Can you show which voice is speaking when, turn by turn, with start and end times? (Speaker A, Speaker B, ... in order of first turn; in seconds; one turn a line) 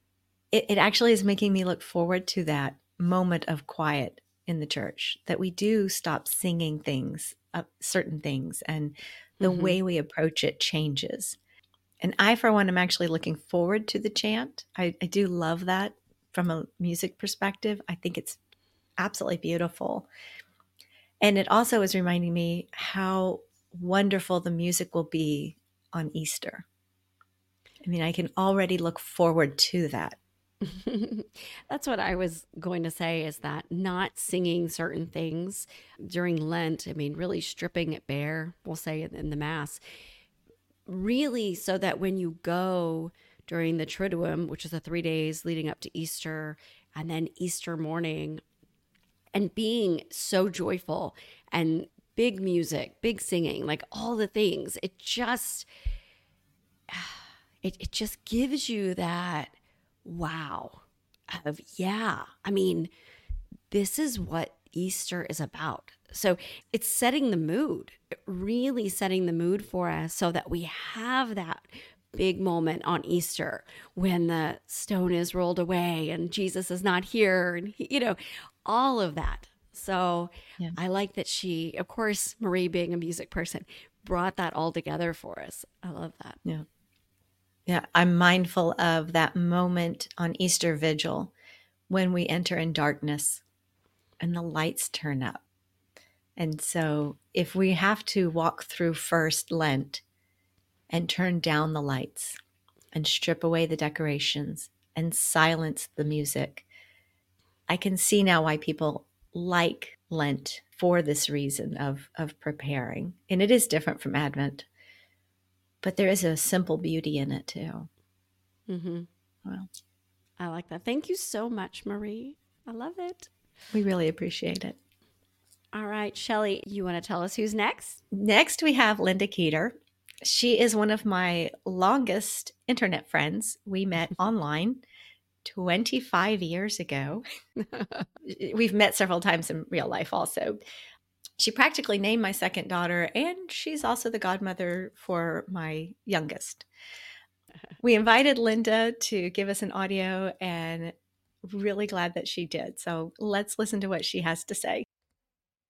Speaker A: 0.5-11.4
Speaker B: 9.4-9.8
Speaker A: 12.0-18.4
Speaker A: 19.0-20.1
Speaker A: 21.2-26.6
Speaker A: 27.8-30.2
Speaker B: 30.6-39.8
Speaker B: 40.9-48.4
Speaker B: 49.3-55.7
Speaker B: 56.9-59.5
Speaker B: 60.0-62.9
Speaker B: 63.7-86.4
Speaker A: 87.7-91.3
Speaker A: 91.9-93.4
Speaker A: 94.2-95.4
Speaker A: 96.4-100.0
Speaker A: 100.9-102.4
Speaker A: 102.9-106.7
Speaker A: 107.7-114.7
Speaker A: 115.8-117.9
Speaker B: 118.7-119.1
Speaker B: 120.4-123.3
Speaker A: 123.7-124.8
Speaker B: 125.7-128.0
Speaker A: 128.1-134.8
Speaker A: 135.4-137.2
Speaker B: 137.7-138.0
Speaker A: 138.2-140.6
Speaker A: 141.4-146.7
Speaker A: 147.8-154.8